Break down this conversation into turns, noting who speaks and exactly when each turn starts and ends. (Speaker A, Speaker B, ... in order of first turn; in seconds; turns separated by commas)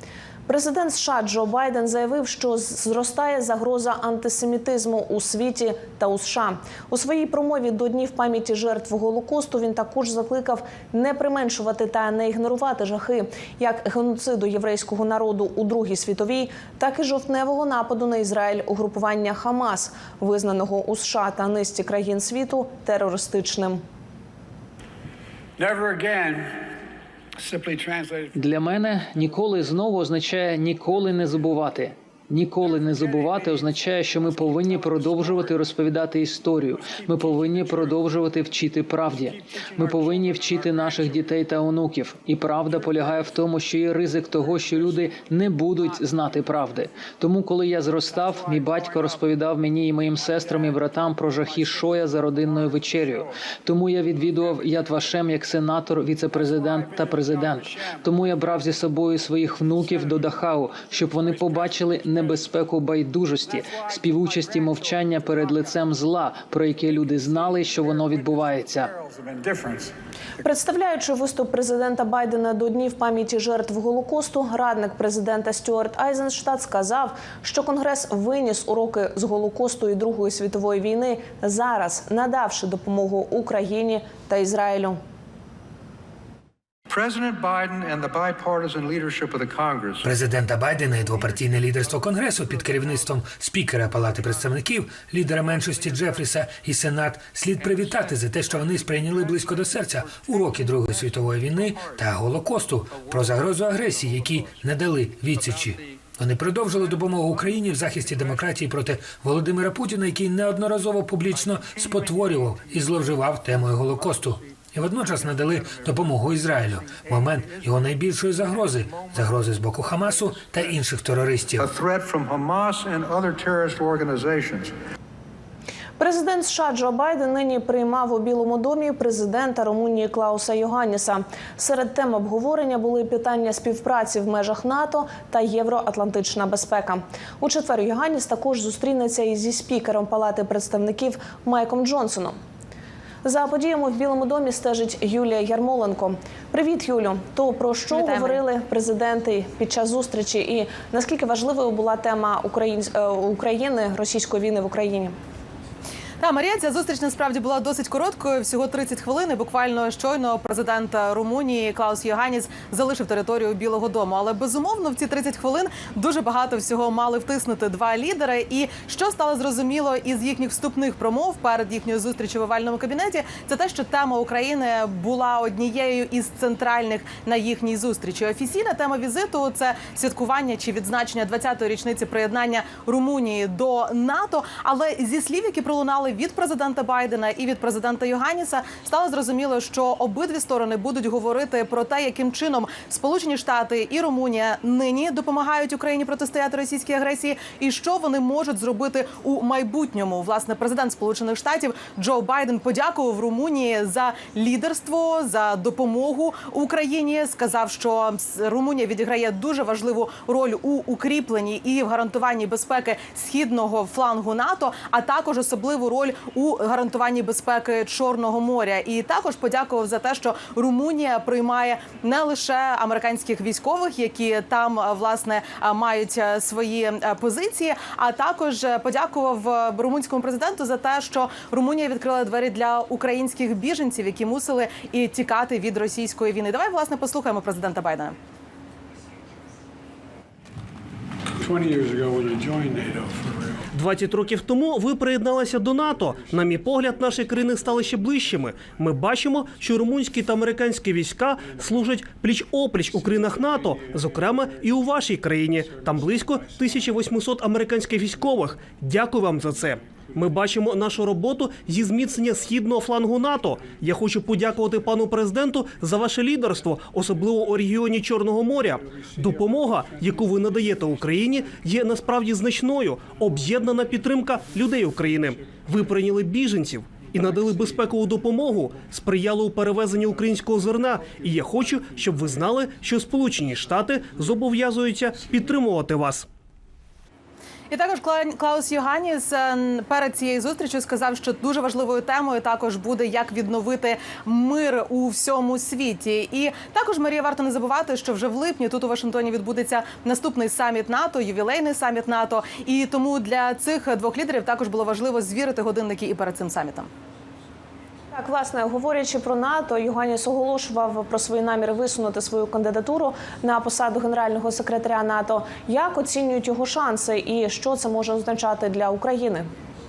Speaker A: 0.5-23.8, Speaker B: 25.6-26.6, Speaker B: 27.4-28.3, Speaker C: 28.3-68.9, Speaker B: 69.0-69.9, Speaker A: 70.4-85.0, Speaker B: 86.9-90.1, Speaker D: 90.0-121.7, Speaker B: 121.6-124.7, Speaker A: 126.0-142.4, Speaker A: 143.2-155.1, Speaker E: 148.0-148.3, Speaker E: 156.2-238.2, Speaker B: 241.4-243.1, Speaker F: 243.7-286.3, Speaker E: 287.7-306.9, Speaker A: 308.1-319.5